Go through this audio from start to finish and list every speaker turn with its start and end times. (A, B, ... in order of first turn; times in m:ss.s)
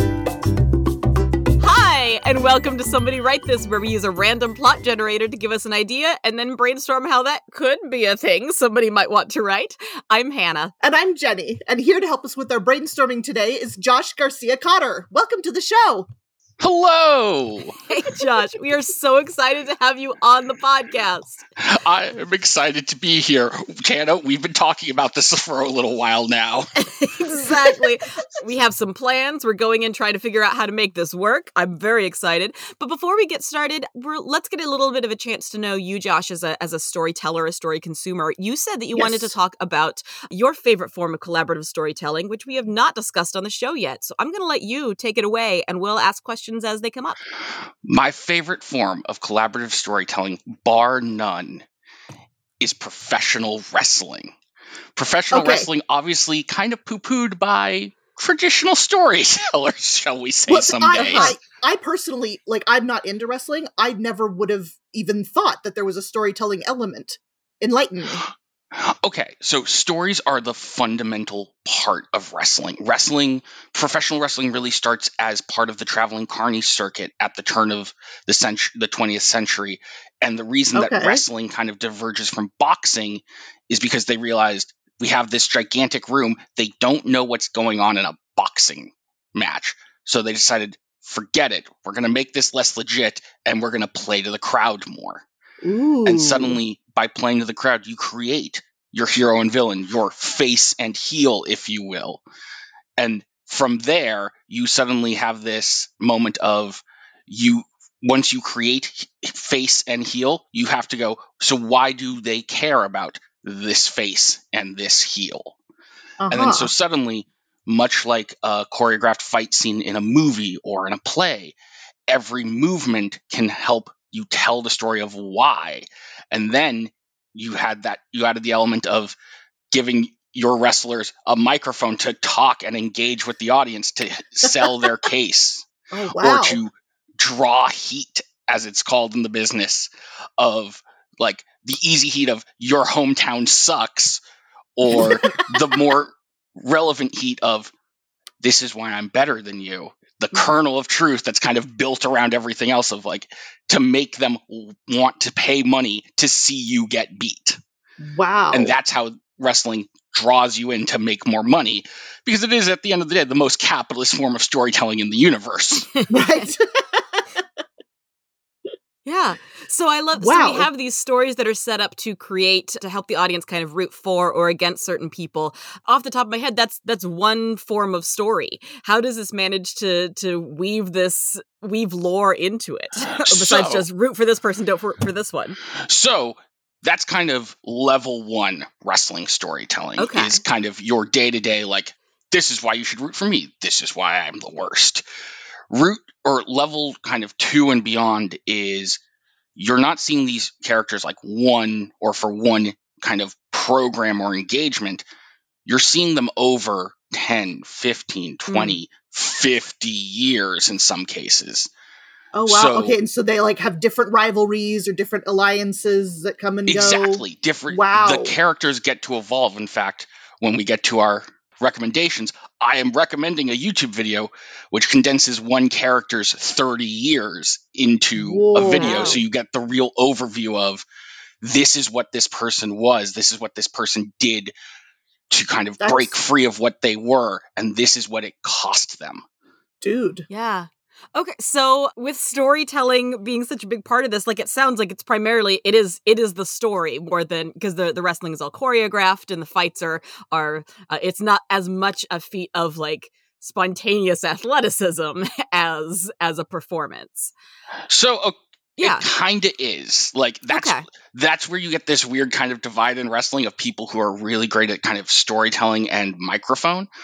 0:01.6-0:10.7 A
0:10.8-0:16.1 B
0:16.6-0:17.8 C
0:17.9-0:21.4 A
0:21.6-0:26.7 C
0:26.8-0:47.2 A
0:38.9-0:39.4 B
0:47.8-0:51.6 C
0:52.6-0:54.3 C
0:55.0-1:01.3 C
0:55.3-0:55.7 B
1:00.5-1:08.2 B
1:00.9-1:01.3 A
1:08.2-1:35.2 C
1:20.7-1:21.2 B
1:35.6-1:36.6 B
1:36.0-1:42.2 C
1:43.0-1:55.6 C
1:56.2-1:56.7 B
1:56.3-2:01.5 C
2:02.1-2:09.2 C
2:09.7-2:24.2 C
2:15.9-2:16.6 B
2:24.8-2:27.7 C
2:24.9-2:25.4 B
2:28.4-2:37.6 C
2:38.0-2:38.7 B
2:38.5-2:45.9 C
2:46.0-2:46.4 A
2:46.1-2:47.4 B
2:49.0-3:05.6 A
2:50.2-2:50.7 B
3:03.1-3:03.8 C
3:05.8-3:15.0 C
3:10.0-3:10.4 A
3:15.7-3:19.0 C
3:19.6-3:25.0 C
3:25.6-3:31.7 C
3:28.5-3:28.8 A
3:32.3-3:38.3 B
3:32.4-3:33.0 C
3:36.7-3:50.8 C
3:48.2-3:49.2 B
3:48.7-3:49.2 A
3:51.4-3:54.5 C
3:55.3-3:59.2 C
3:55.8-3:56.1 B
3:59.8-4:00.2 B
4:00.3-4:17.3 A
4:17.9-4:26.9 C
4:18.8-4:19.0 A
4:20.5-4:20.8 A